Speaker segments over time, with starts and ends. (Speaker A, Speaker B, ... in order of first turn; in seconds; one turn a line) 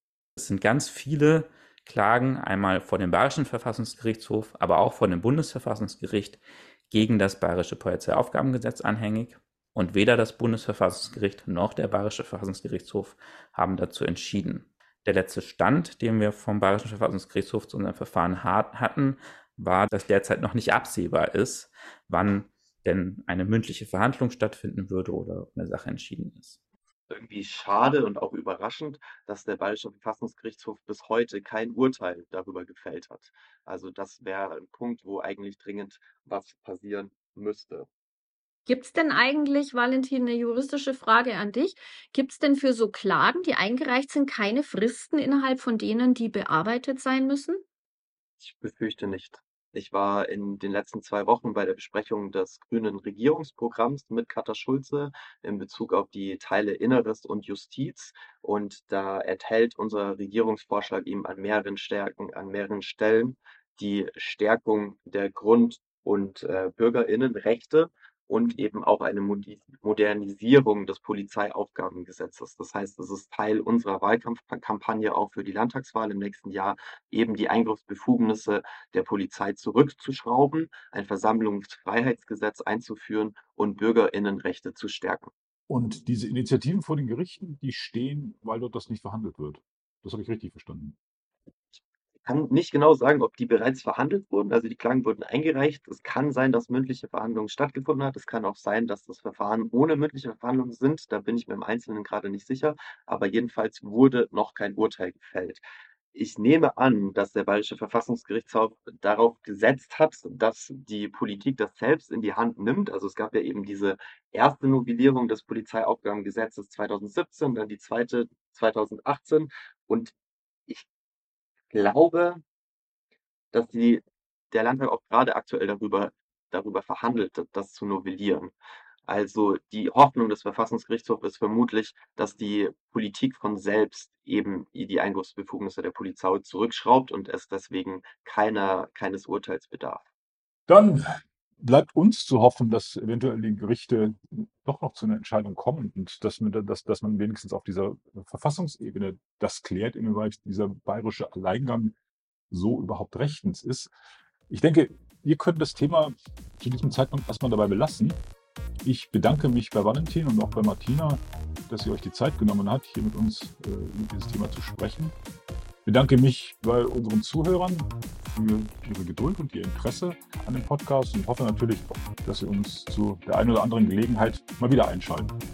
Speaker A: 0.4-26.6
Speaker B: 27.1-37.9
Speaker C: 38.7-47.6
Speaker B: 48.4-85.3
Speaker D: 85.7-91.0
Speaker B: 91.7-120.1
Speaker B: 121.7-122.4
Speaker B: 123.5-128.5
Speaker B: 129.1-140.0
Speaker D: 140.7-141.0
Speaker D: 141.6-151.9
Speaker D: 152.5-153.9
Speaker D: 154.5-158.2
Speaker D: 158.8-165.2
Speaker D: 165.8-175.3